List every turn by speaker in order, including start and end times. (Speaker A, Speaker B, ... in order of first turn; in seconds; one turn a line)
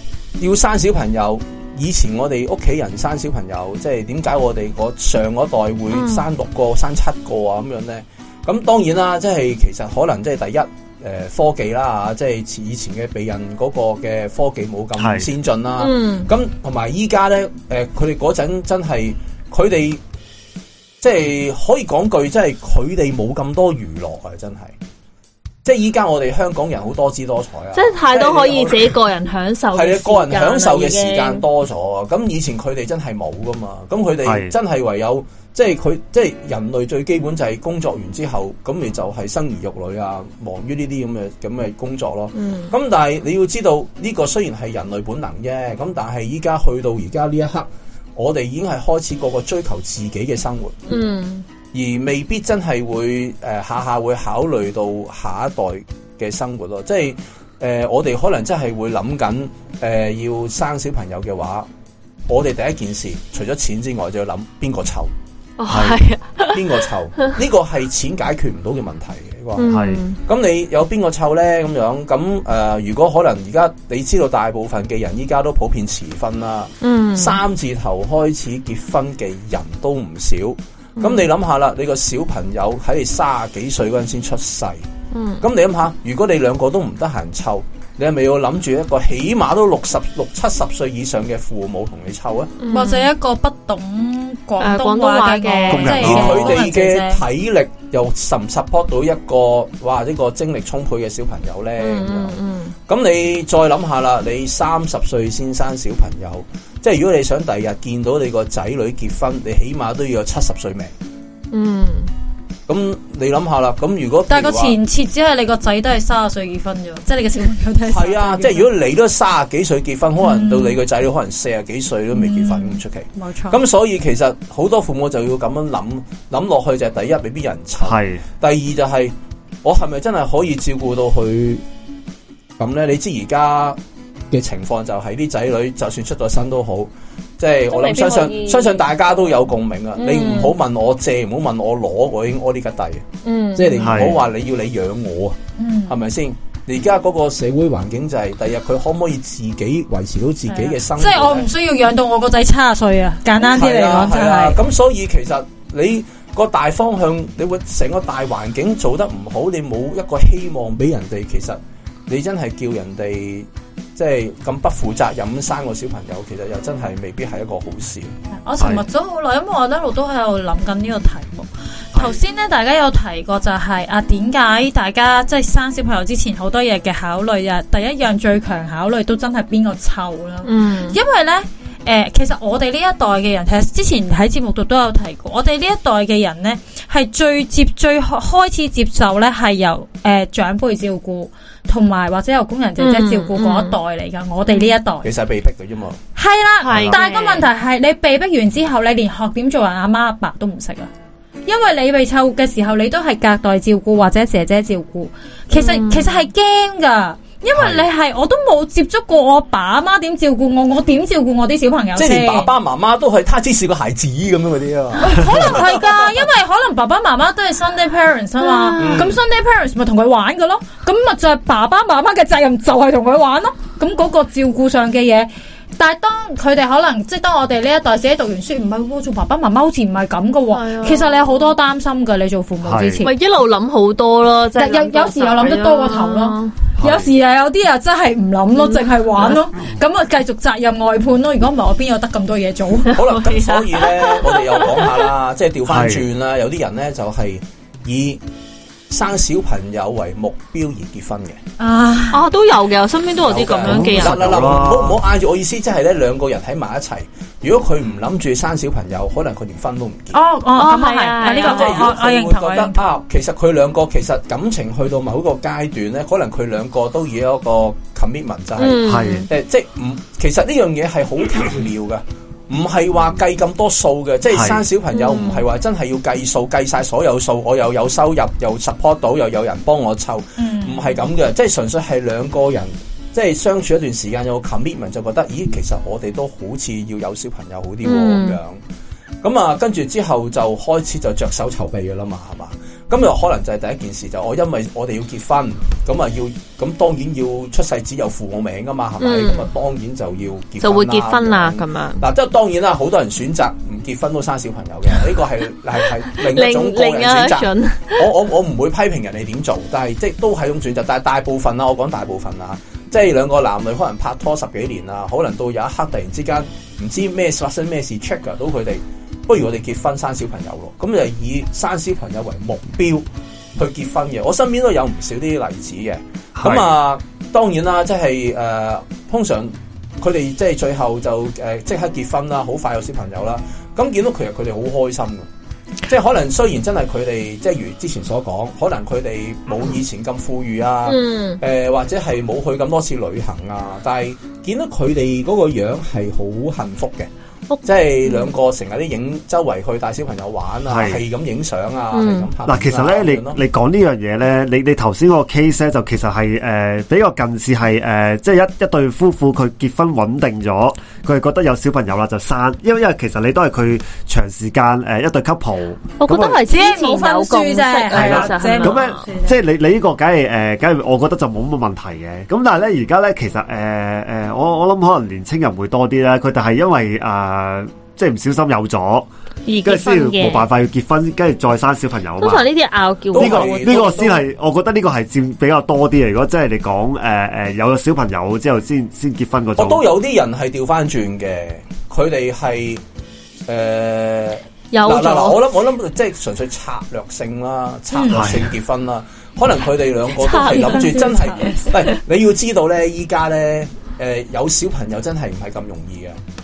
Speaker A: 0.4-20.0
Speaker B: 5.9-6.2
Speaker C: 15.0-15.3
Speaker B: 15.8-16.3
Speaker A: 21.0-24.8
Speaker A: 25.6-29.0
Speaker B: 27.7-31.4
Speaker A: 29.7-50.9
Speaker C: 34.2-34.5
Speaker B: 42.4-42.7
Speaker B: 50.9-51.5
Speaker A: 51.7-61.7
Speaker A: 62.3-65.1
Speaker B: 65.6-66.8
Speaker C: 65.7-66.0
Speaker A: 66.5-69.7
Speaker B: 69.6-70.2
Speaker C: 69.7-70.0
Speaker A: 70.2-84.8
Speaker B: 76.8-77.4
Speaker B: 81.0-81.3
Speaker B: 85.1-85.4
Speaker A: 85.4-92.5
Speaker B: 92.6-93.1
Speaker D: 92.7-97.2
Speaker B: 94.6-96.2
Speaker C: 95.7-96.6
Speaker A: 95.9-102.4
Speaker B: 101.8-102.7
Speaker A: 102.9-110.9
Speaker B: 111.5-112.1
Speaker A: 112.7-114.8
Speaker D: 114.3-118.7
Speaker A: 117.9-131.6
Speaker D: 120.2-120.8
Speaker D: 122.1-123.6
Speaker C: 127.8-128.2
Speaker A: 132.6-133.8
Speaker A: 134.3-151.5
Speaker B: 137.7-139.4
Speaker B: 140.0-140.6
Speaker B: 143.2-144.1
Speaker C: 143.8-144.2
Speaker D: 145.6-145.9
Speaker D: 150.5-154.6
Speaker A: 153.4-168.1
Speaker D: 168.4-195.1
Speaker B: 180.4-181.0
Speaker B: 192.8-193.8
Speaker B: 194.5-194.8
Speaker A: 195.0-196.0
Speaker D: 196.2-200.9
Speaker B: 196.6-197.5
Speaker D: 201.5-212.5
Speaker B: 205.5-206.3
Speaker C: 207.5-207.9
Speaker A: 211.9-216.1
Speaker D: 215.0-233.1
Speaker B: 218.4-219.1
Speaker A: 218.8-219.2
Speaker B: 230.5-231.6
Speaker C: 232.6-233.0
Speaker B: 233.0-236.6
Speaker D: 234.6-243.0
Speaker C: 236.8-237.1
Speaker B: 238.6-239.4
Speaker A: 242.9-248.2
Speaker B: 242.9-245.1
Speaker C: 245.7-246.1
Speaker A: 248.9-251.4
Speaker D: 251.6-252.2
Speaker B: 252.1-254.6
Speaker A: 253.2-260.2
Speaker C: 253.6-255.0
Speaker D: 260.1-262.8
Speaker B: 260.6-261.9
Speaker A: 261.3-288.6
Speaker B: 268.6-269.3
Speaker C: 268.9-269.3
Speaker C: 274.3-274.6
Speaker B: 274.9-275.4
Speaker D: 280.4-281.0
Speaker B: 287.8-288.4
Speaker A: 289.2-323.1
Speaker B: 299.0-299.5
Speaker B: 300.6-302.1
Speaker B: 306.1-308.1
Speaker A: 323.6-335.3
Speaker C: 326.4-326.7
Speaker A: 335.9-347.1
Speaker B: 340.9-341.4
Speaker B: 347.5-348.3
Speaker A: 347.6-353.4
Speaker C: 350.7-351.0
Speaker B: 351.9-352.3
Speaker C: 352.5-366.4
Speaker B: 366.0-369.0
Speaker D: 366.4-369.4
Speaker C: 367.9-379.1
Speaker B: 379.5-380.5
Speaker C: 379.6-382.5
Speaker B: 382.2-384.1
Speaker A: 383.1-384.2
Speaker C: 383.2-389.8
Speaker A: 389.6-392.8
Speaker A: 393.5-406.2
Speaker B: 394.7-395.4
Speaker D: 397.9-398.3
Speaker C: 398.1-398.5
Speaker B: 400.2-401.2
Speaker D: 400.2-401.7